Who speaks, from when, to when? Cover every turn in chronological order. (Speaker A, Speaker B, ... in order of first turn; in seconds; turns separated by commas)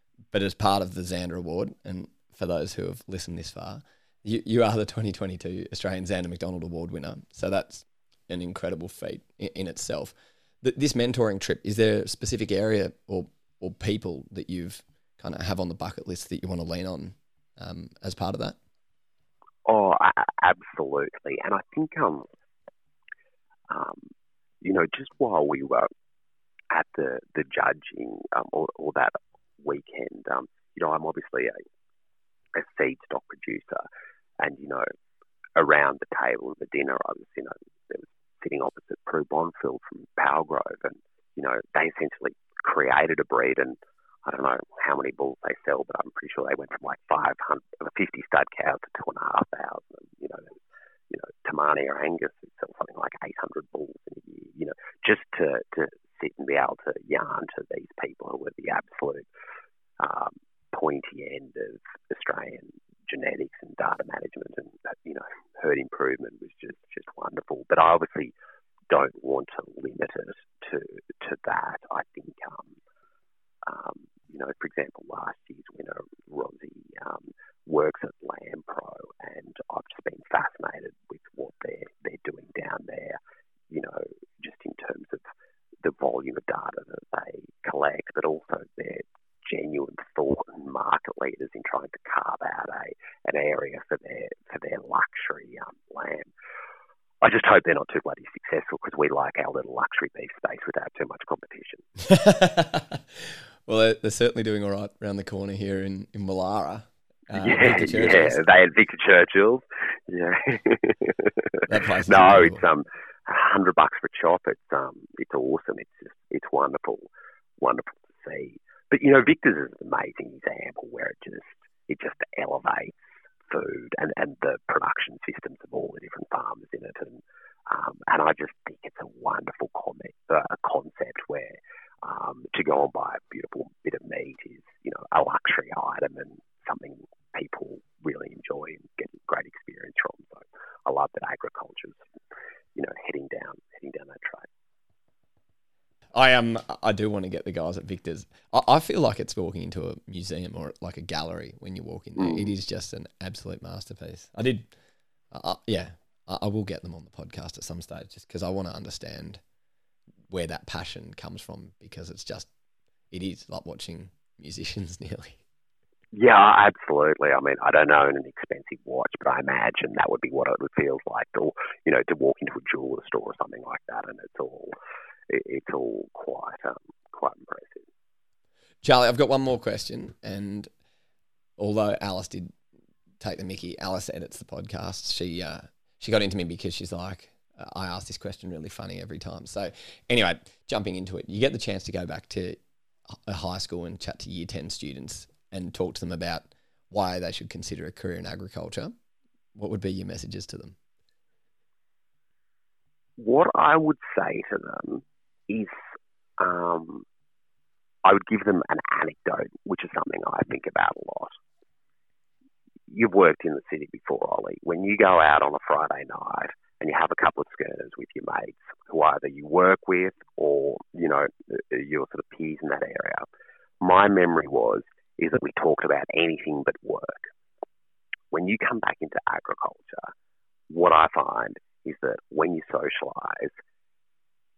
Speaker A: 0.3-18.6, Speaker B: 19.6-22.3, Speaker B: 23.7-24.1, Speaker B: 24.6-25.9, Speaker B: 26.7-31.6, Speaker B: 32.5-33.9, Speaker B: 34.4-34.8, Speaker B: 35.5-59.3, Speaker B: 60.0-68.3, Speaker B: 68.9-72.8, Speaker B: 73.6-83.2, Speaker B: 83.7-85.2, Speaker B: 85.8-96.3, Speaker B: 97.2-101.8, Speaker A: 102.0-108.4, Speaker B: 107.3-142.0, Speaker A: 111.7-112.6, Speaker B: 142.7-144.5, Speaker A: 146.1-154.7, Speaker B: 152.2-152.5, Speaker A: 155.3-159.4, Speaker A: 160.3-162.5, Speaker A: 163.1-165.4, Speaker B: 166.1-174.7, Speaker B: 175.3-177.9, Speaker A: 178.8-180.7, Speaker A: 181.6-182.5, Speaker A: 183.2-192.6, Speaker A: 193.3-198.9, Speaker A: 199.5-200.8, Speaker B: 203.2-205.8, Speaker B: 206.4-207.1, Speaker B: 208.0-211.4, Speaker B: 212.9-223.3, Speaker B: 223.8-227.3, Speaker B: 228.3-230.1, Speaker B: 230.7-233.6